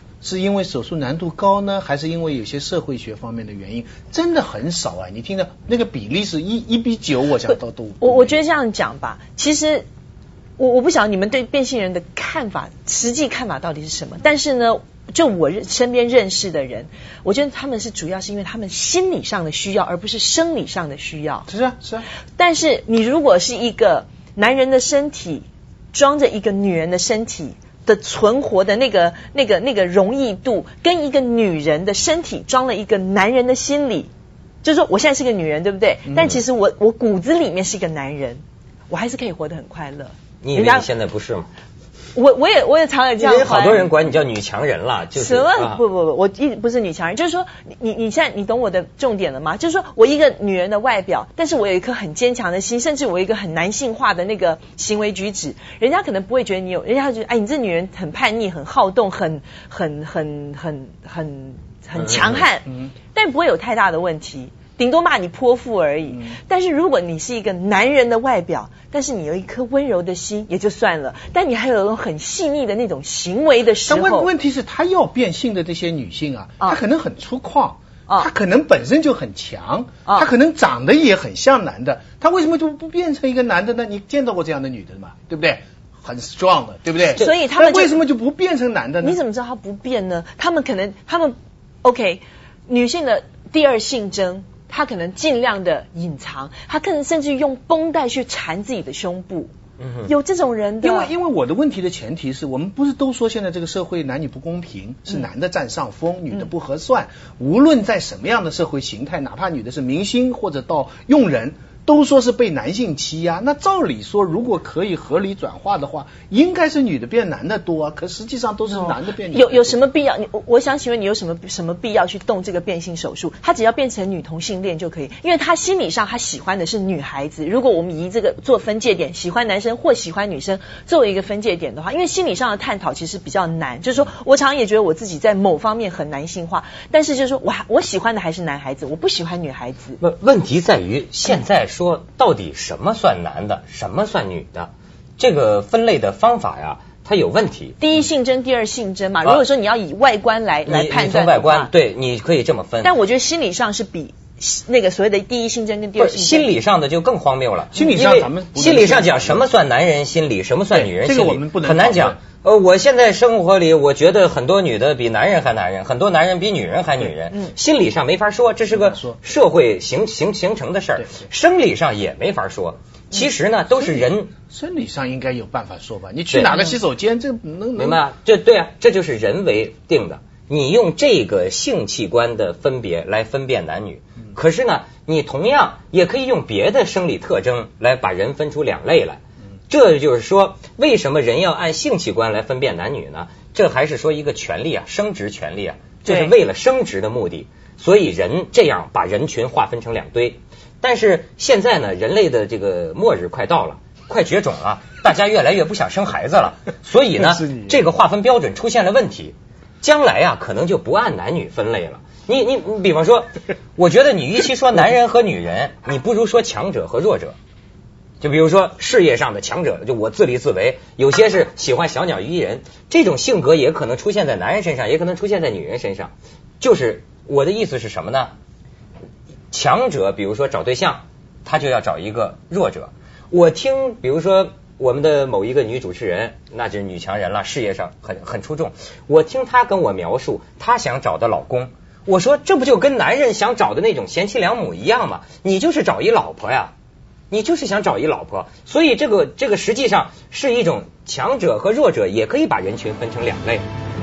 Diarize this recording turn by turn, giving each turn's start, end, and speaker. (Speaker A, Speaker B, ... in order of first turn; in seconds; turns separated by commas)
Speaker A: 0.2-8.4, Speaker B: 8.0-9.9, Speaker B: 10.6-21.5, Speaker A: 21.5-22.1, Speaker B: 22.4-34.1, Speaker B: 34.6-40.9, Speaker C: 40.4-41.5, Speaker B: 42.1-43.9, Speaker C: 43.2-45.8, Speaker B: 45.1-74.3, Speaker C: 62.0-62.4, Speaker A: 66.1-66.4, Speaker A: 73.8-89.2, Speaker B: 87.1-88.0, Speaker B: 89.0-99.5, Speaker C: 99.8-100.1, Speaker B: 100.1-101.1, Speaker A: 100.8-119.8, Speaker B: 118.8-140.0, Speaker C: 140.0-147.8, Speaker B: 147.8-151.7, Speaker C: 150.7-153.0, Speaker B: 152.8-156.5, Speaker C: 156.0-174.3, Speaker A: 157.7-159.5, Speaker A: 160.7-162.2, Speaker A: 168.7-169.2, Speaker A: 174.5-178.0, Speaker C: 176.3-176.6, Speaker C: 177.8-217.4, Speaker B: 196.1-196.3, Speaker A: 207.2-207.8, Speaker C: 218.2-228.3, Speaker C: 229.5-246.7, Speaker C: 247.3-253.7